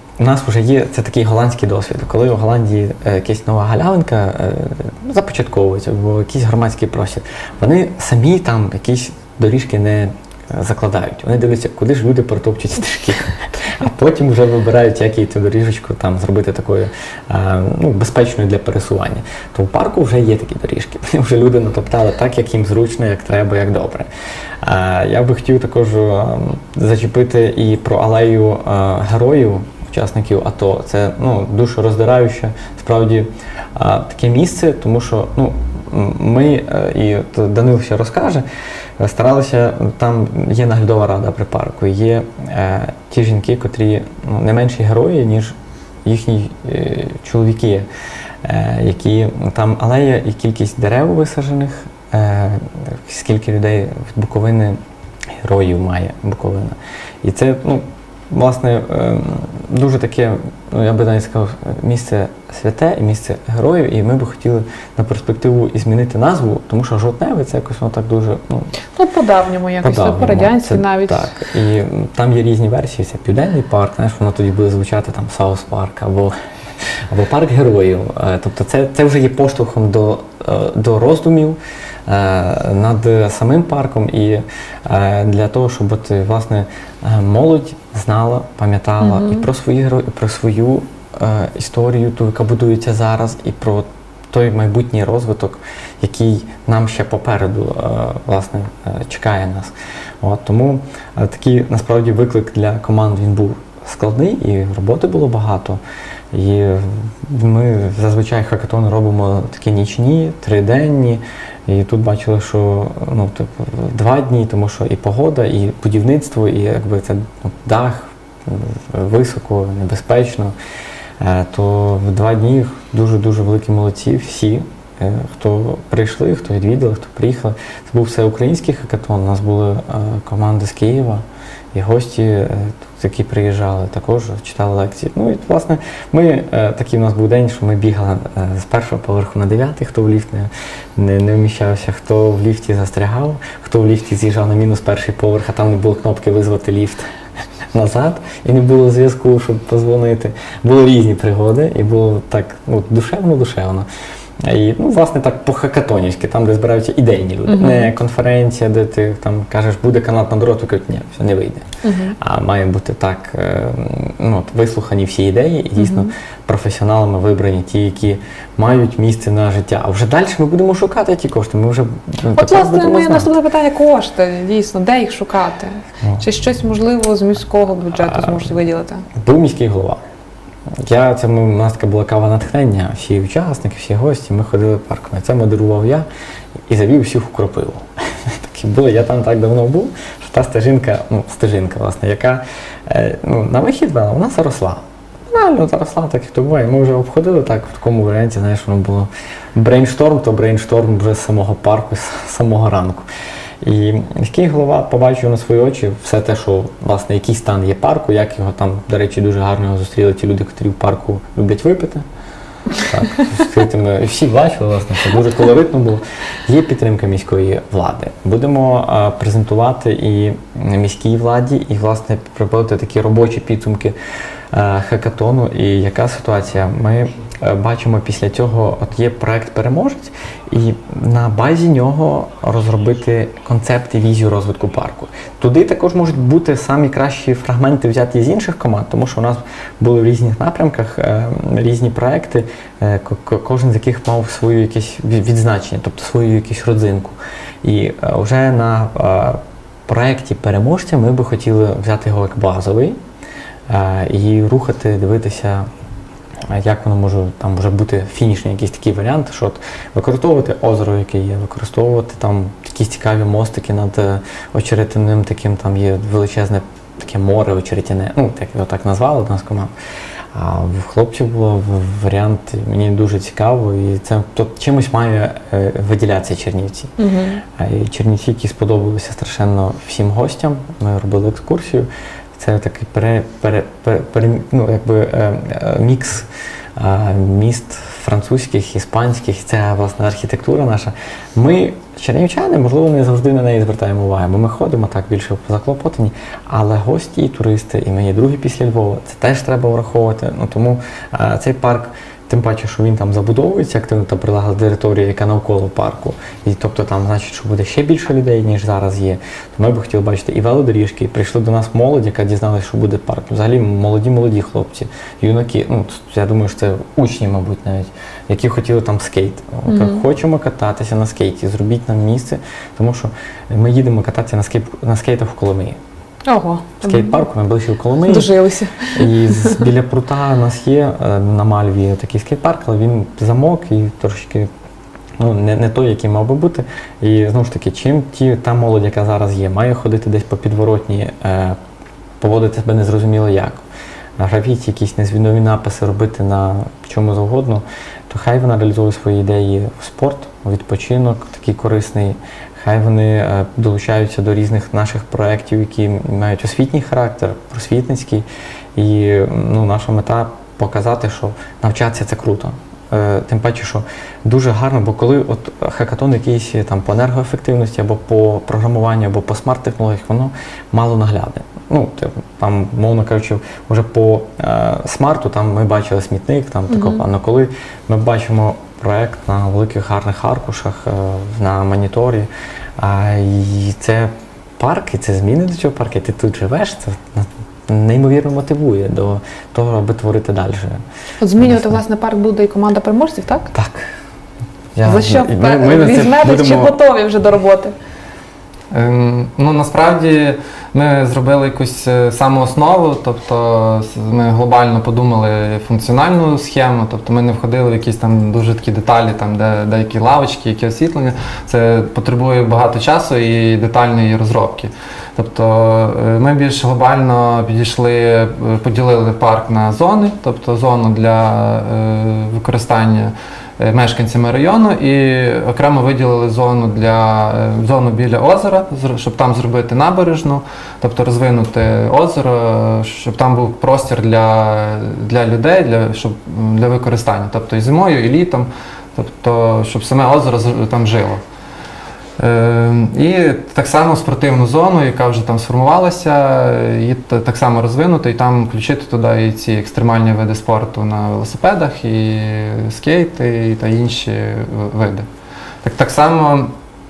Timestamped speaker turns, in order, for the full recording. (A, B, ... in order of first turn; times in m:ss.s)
0:00.2-0:24.1 A
0:24.6-0:38.4 A
0:39.0-0:47.9 A
0:48.4-0:54.8 A
0:55.4-1:08.7 A
1:08.9-1:11.3 B
1:09.8-1:16.3 A
1:17.1-1:45.8 A
1:29.0-1:29.4 B
1:46.3-2:00.5 A
2:01.2-2:27.0 A
2:27.7-2:33.8 A
2:34.4-2:41.6 A
2:37.5-2:37.9 B
2:41.8-2:42.2 B
2:42.2-2:53.3 A
2:45.8-2:46.1 B
2:52.3-2:59.1 B
2:59.1-3:00.0 A
3:00.8-3:06.0 A
3:06.7-3:23.0 A
3:23.6-3:32.0 A
3:32.8-3:43.9 A
3:44.5-4:13.0 A
4:13.7-4:15.7 A
4:16.5-4:29.7 A
4:30.3-4:36.9 A
4:37.0-4:37.4 B
4:37.6-5:25.8 A
5:19.7-5:20.0 B
5:26.3-5:27.2 B
5:26.8-5:28.3 A
5:28.1-5:29.6 B
5:28.9-5:34.5 A
5:35.2-5:41.6 A
5:42.2-5:43.6 A
5:44.2-6:30.8 A
6:16.7-6:17.0 B
6:31.2-6:33.5 B
6:31.4-6:31.8 A
6:33.5-6:33.8 A
6:34.7-6:36.8 A
6:34.8-6:37.7 B
6:38.7-7:21.2 C
7:22.2-7:35.1 C
7:35.6-7:36.5 C